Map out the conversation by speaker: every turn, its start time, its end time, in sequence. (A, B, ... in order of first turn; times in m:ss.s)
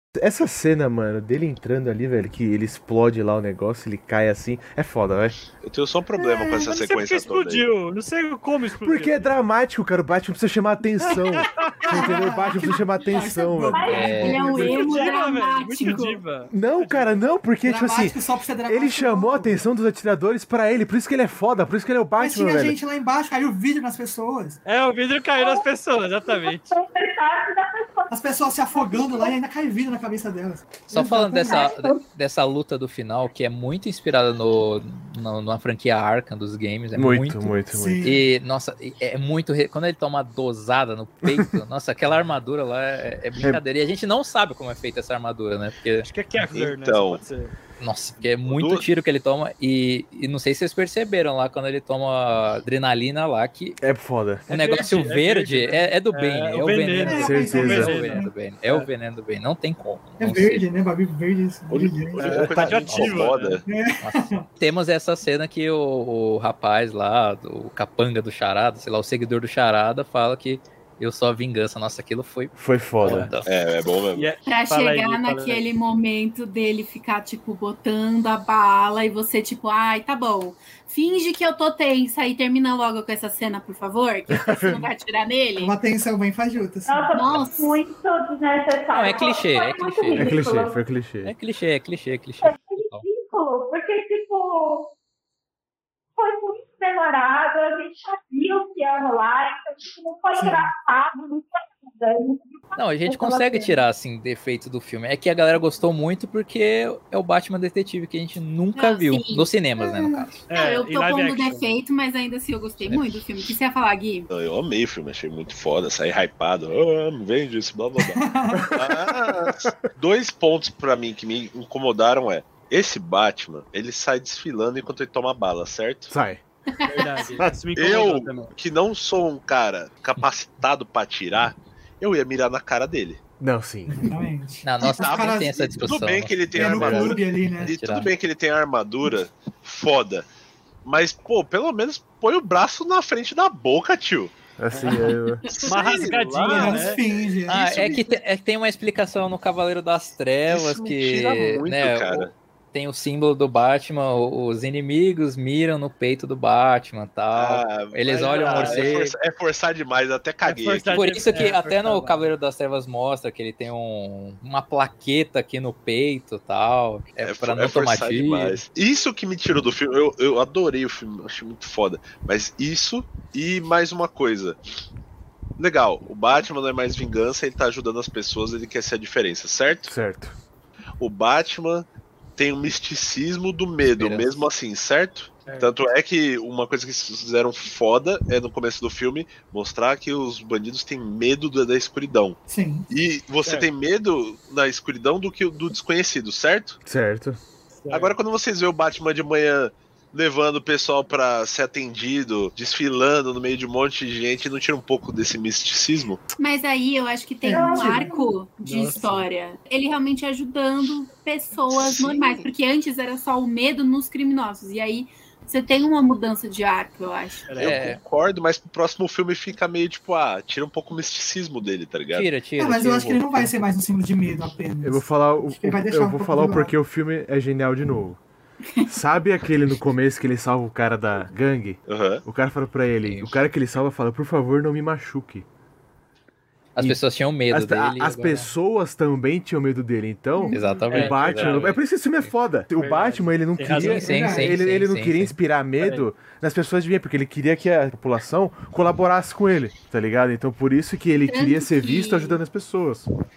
0:00.1-0:05.4 A
0:05.6-0:07.7 B
0:06.6-0:09.4 C
0:08.8-0:13.9 A
0:11.0-0:12.1 C
0:11.9-0:15.1 D
0:13.7-0:15.1 E
0:13.9-0:14.4 F
0:14.1-0:16.2 G
0:14.4-0:17.2 C
0:16.5-0:22.8 A
0:17.6-0:19.6 D
0:22.2-0:24.6 D
0:24.6-0:26.7 C
0:25.4-0:25.6 E
0:26.2-0:28.1 E
0:28.1-0:31.7 D
0:28.7-0:29.3 E
0:30.9-0:46.1 F
0:31.4-0:32.0 E
0:36.9-0:38.1 A
0:37.7-0:38.2 D
0:41.2-0:41.6 A
0:46.0-0:47.5 C
0:46.5-0:47.2 B
0:47.8-0:53.8 F
0:48.4-0:48.8 B
0:53.8-0:54.4 A
0:54.5-0:58.9 C
0:54.5-1:00.7 F
0:57.1-0:58.3 D
0:57.1-0:58.0 A
1:00.2-1:02.4 D
1:01.7-1:03.6 B
1:02.2-1:03.6 C
1:02.7-1:03.3 F
1:03.6-1:04.4 D
1:04.0-1:13.5 F
1:12.6-1:13.3 A
1:13.0-1:13.3 C
1:13.4-1:14.3 B
1:14.1-1:15.6 C
1:14.4-1:25.7 G
1:24.3-1:24.9 A
1:25.6-1:27.1 D
1:26.9-1:30.8 E
1:27.1-1:27.8 G
1:28.9-1:30.4 F
1:30.1-1:31.3 A
1:31.2-1:33.0 F
1:32.4-1:34.9 E
1:36.2-1:43.8 E
1:40.3-1:40.7 D
1:42.8-1:50.4 F
1:48.7-1:54.3 G
1:50.5-1:51.6 C
1:54.3-1:58.2 B
1:58.1-1:58.8 D
1:58.5-1:59.7 A
1:58.7-2:06.1 B
2:06.1-2:06.4 A
2:06.7-2:07.2 G
2:06.9-2:08.5 C
2:07.7-2:13.2 B
2:13.4-2:14.1 A
2:13.9-2:15.7 D
2:14.6-2:18.1 F
2:15.0-2:20.3 B
2:16.5-2:17.7 D
2:20.8-2:24.3 B
2:24.6-2:25.5 A
2:24.7-2:25.1 C
2:25.5-2:27.0 B
2:25.6-2:27.0 C
2:26.5-2:28.1 D
2:27.5-2:39.1 F
2:30.5-2:32.3 B
2:37.3-2:41.0 B
2:38.1-2:39.0 C
2:40.4-2:42.3 C
2:40.9-2:48.6 F
2:47.2-2:54.6 B
2:55.6-2:59.9 B
2:59.9-3:00.4 A
3:01.0-3:12.4 B
3:04.0-3:04.4 F
3:05.4-3:05.7 C
3:12.5-3:12.9 D
3:12.9-3:16.8 B
3:13.4-3:13.7 C
3:16.8-3:17.4 A
3:17.8-3:18.2 C
3:17.9-3:26.2 B
3:26.4-3:37.5 G
3:27.4-3:28.2 D
3:27.5-3:28.2 E
3:28.6-3:29.2 C
3:31.7-3:32.4 B
3:37.5-3:37.9 C
3:37.6-3:42.3 B
3:37.6-3:38.0 F
3:42.1-3:43.5 F
3:42.6-3:46.7 D
3:44.8-3:48.2 A
3:48.8-3:55.4 A
3:51.9-3:52.2 B
3:53.0-3:53.3 F
3:56.8-3:58.5 F
3:57.5-4:13.1 A
4:00.5-4:02.3 F
4:00.9-4:01.8 C
4:02.7-4:04.1 C
4:03.7-4:05.4 F
4:03.8-4:04.6 D
4:05.8-4:06.0 C
4:11.3-4:12.4 G